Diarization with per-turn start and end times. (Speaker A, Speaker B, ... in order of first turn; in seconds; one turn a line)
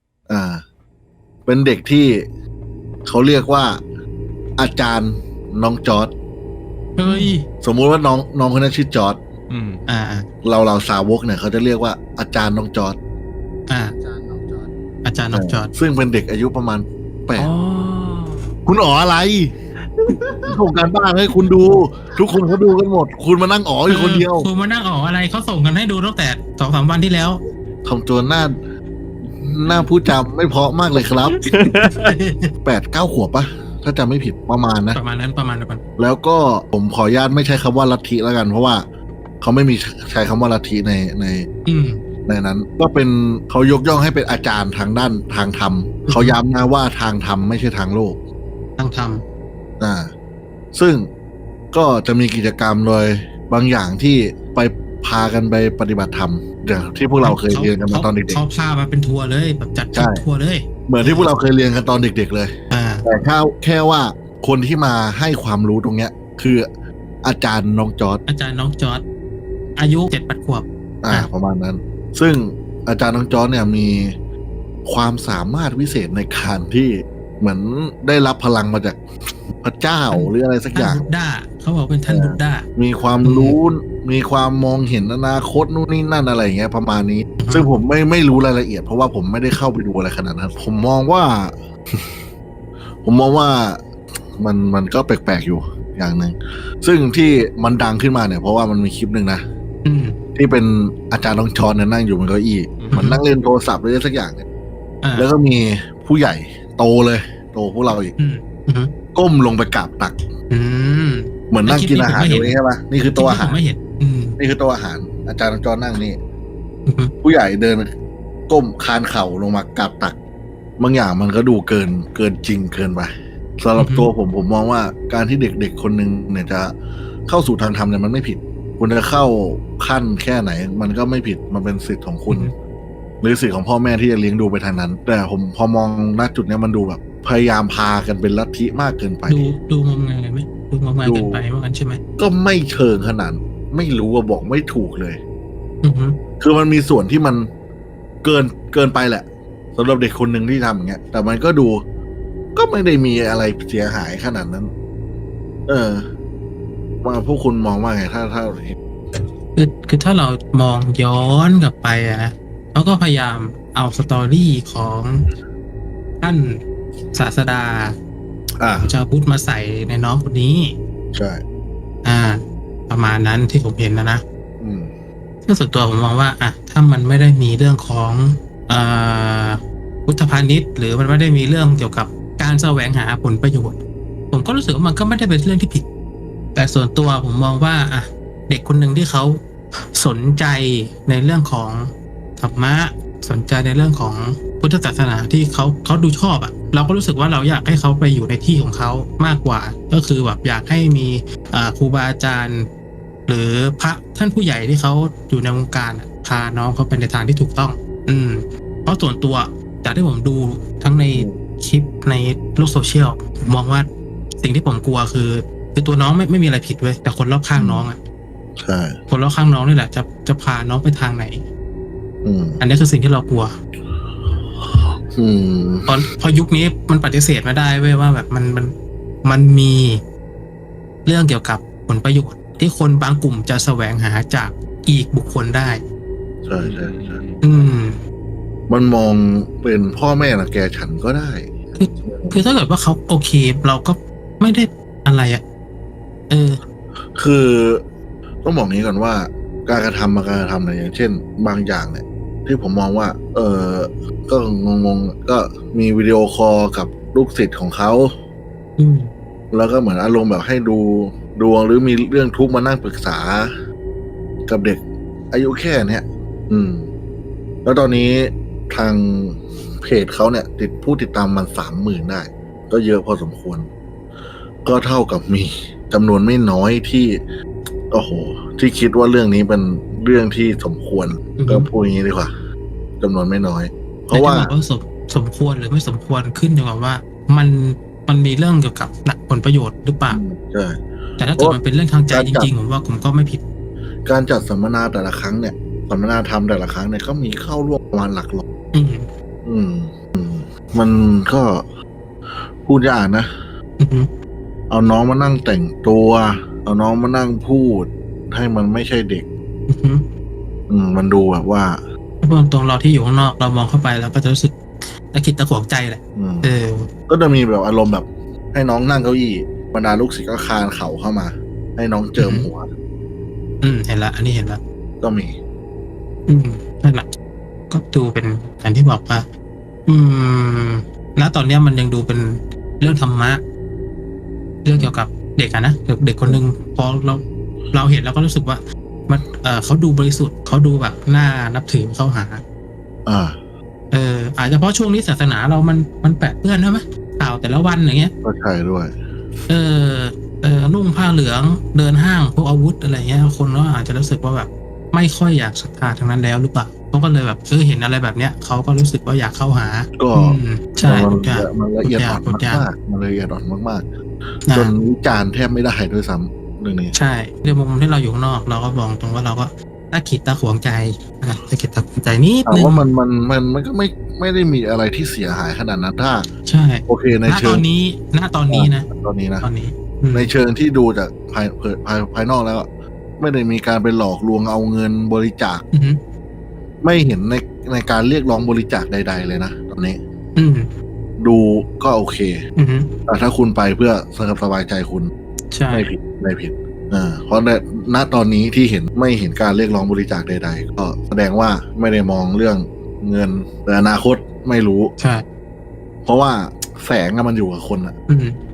Speaker A: 0.3-0.6
Speaker A: 1.4-2.2
Speaker A: 3.0-3.8
Speaker A: 4.6-6.1
Speaker B: 7.0-7.4
Speaker A: 7.1-9.2
Speaker C: 9.5-9.8
Speaker B: 9.9-10.3
Speaker A: 10.4-13.0
Speaker B: 13.7-13.9
Speaker B: 15.0-15.7
Speaker A: 15.3-17.5
Speaker C: 17.4-18.4
Speaker A: 18.6-19.5
Speaker C: 20.1-20.4
Speaker A: 20.5-24.5
Speaker B: 23.9-27.4
Speaker A: 27.8-28.6
Speaker A: 29.3-31.4
Speaker C: 31.4-32.1
Speaker B: 31.9-32.5
Speaker A: 32.6-35.0
Speaker B: 34.9-35.8
Speaker A: 36.0-38.9
Speaker A: 39.4-41.5
Speaker B: 41.6-42.0
Speaker A: 42.2-48.2
Speaker B: 46.1-46.4
Speaker B: 48.8-49.2
Speaker A: 49.8-50.1
Speaker A: 50.7-51.1
Speaker A: 51.7-58.4
Speaker B: 57.2-61.3
Speaker A: 59.9-60.2
Speaker A: 60.9-62.5
Speaker B: 62.7-63.0
Speaker A: 63.0-66.7
Speaker A: 67.2-68.2
Speaker B: 68.3-69.0
Speaker B: 69.8-71.3
Speaker A: 71.0-74.1
Speaker A: 74.8-79.0
Speaker A: 79.6-81.1
Speaker B: 80.1-82.7
Speaker A: 82.1-92.2
Speaker B: 83.2-83.6
Speaker B: 87.4-87.7
Speaker A: 93.0-93.8
Speaker A: 94.4-99.4
Speaker B: 99.8-100.2
Speaker A: 100.3-104.4
Speaker B: 102.9-103.2
Speaker B: 105.0-105.3
Speaker A: 105.2-108.1
Speaker B: 108.2-108.9
Speaker A: 109.1-110.2
Speaker B: 110.5-112.6
Speaker A: 111.5-113.6
Speaker B: 113.1-114.4
Speaker A: 114.4-116.2
Speaker B: 116.8-117.1
Speaker A: 117.2-117.9
Speaker A: 118.5-120.2
Speaker A: 120.8-126.7
Speaker B: 123.8-124.1
Speaker A: 127.2-132.5
Speaker A: 133.2-139.5
Speaker B: 139.3-142.0
Speaker A: 141.0-141.4
Speaker A: 142.2-145.2
Speaker B: 145.8-146.2
Speaker A: 146.4-147.5
Speaker A: 148.2-151.8
Speaker A: 152.5-154.7
Speaker A: 155.7-156.1
Speaker A: 157.0-158.8
Speaker B: 159.6-165.2
Speaker B: 166.2-166.6
Speaker B: 167.1-167.9
Speaker A: 168.6-168.9
Speaker B: 168.8-170.8
Speaker A: 171.1-171.4
Speaker B: 172.0-174.2
Speaker A: 174.6-174.9
Speaker B: 175.4-183.8
Speaker B: 184.3-185.9
Speaker B: 186.5-189.4
Speaker B: 189.9-202.7
Speaker B: 203.3-213.9
Speaker A: 211.1-211.4
Speaker B: 214.4-218.0
Speaker A: 217.5-217.9
Speaker A: 218.6-219.0
Speaker B: 219.1-221.4
Speaker A: 222.2-222.6
Speaker B: 222.6-223.6
Speaker A: 224.1-226.0
Speaker B: 225.9-228.7
Speaker B: 229.2-230.0
Speaker B: 231.0-235.8
Speaker A: 236.4-237.2
Speaker C: 236.6-237.4
Speaker B: 237.4-238.0
Speaker A: 238.7-242.4
Speaker B: 241.7-245.4
Speaker B: 246.3-246.6
Speaker A: 247.1-247.8
Speaker A: 248.4-258.1
Speaker B: 258.8-259.1
Speaker A: 259.5-263.5
Speaker A: 264.4-266.9
Speaker A: 267.6-273.7
Speaker A: 274.6-277.2
Speaker A: 277.9-282.3
Speaker B: 281.4-281.7
Speaker A: 283.0-284.5
Speaker B: 284.1-290.2
Speaker A: 290.1-290.8
Speaker B: 291.2-293.4
Speaker A: 292.1-292.5
Speaker A: 294.0-298.4
Speaker B: 298.7-299.1
Speaker A: 299.4-301.6
Speaker A: 302.3-303.3
Speaker B: 303.8-304.1
Speaker A: 304.7-309.3
Speaker B: 309.7-310.1
Speaker A: 310.7-311.8
Speaker B: 312.2-316.9
Speaker A: 316.1-316.5
Speaker A: 317.1-322.7
Speaker B: 322.2-322.5
Speaker B: 323.6-324.6
Speaker A: 325.0-325.4
Speaker B: 326.3-327.1
Speaker B: 327.7-329.2
Speaker B: 329.9-333.4
Speaker B: 334.6-342.4
Speaker A: 343.1-343.4
Speaker B: 343.9-348.1
Speaker A: 348.2-348.9
Speaker B: 349.5-362.7
Speaker A: 360.0-363.9
Speaker B: 364.5-364.7
Speaker A: 364.5-366.9
Speaker B: 366.9-372.9
Speaker A: 372.4-376.3
Speaker B: 376.4-378.9
Speaker A: 376.9-377.6
Speaker A: 378.5-379.5
Speaker B: 379.4-380.3
Speaker A: 380.1-382.7
Speaker A: 383.2-385.6
Speaker B: 385.7-386.0
Speaker A: 386.8-390.0
Speaker B: 390.4-390.7
Speaker A: 391.2-392.4
Speaker B: 392.6-392.9
Speaker A: 393.1-395.1
Speaker B: 395.5-395.9
Speaker A: 395.7-404.9
Speaker B: 405.0-405.2
Speaker A: 406.0-407.9
Speaker B: 408.1-408.4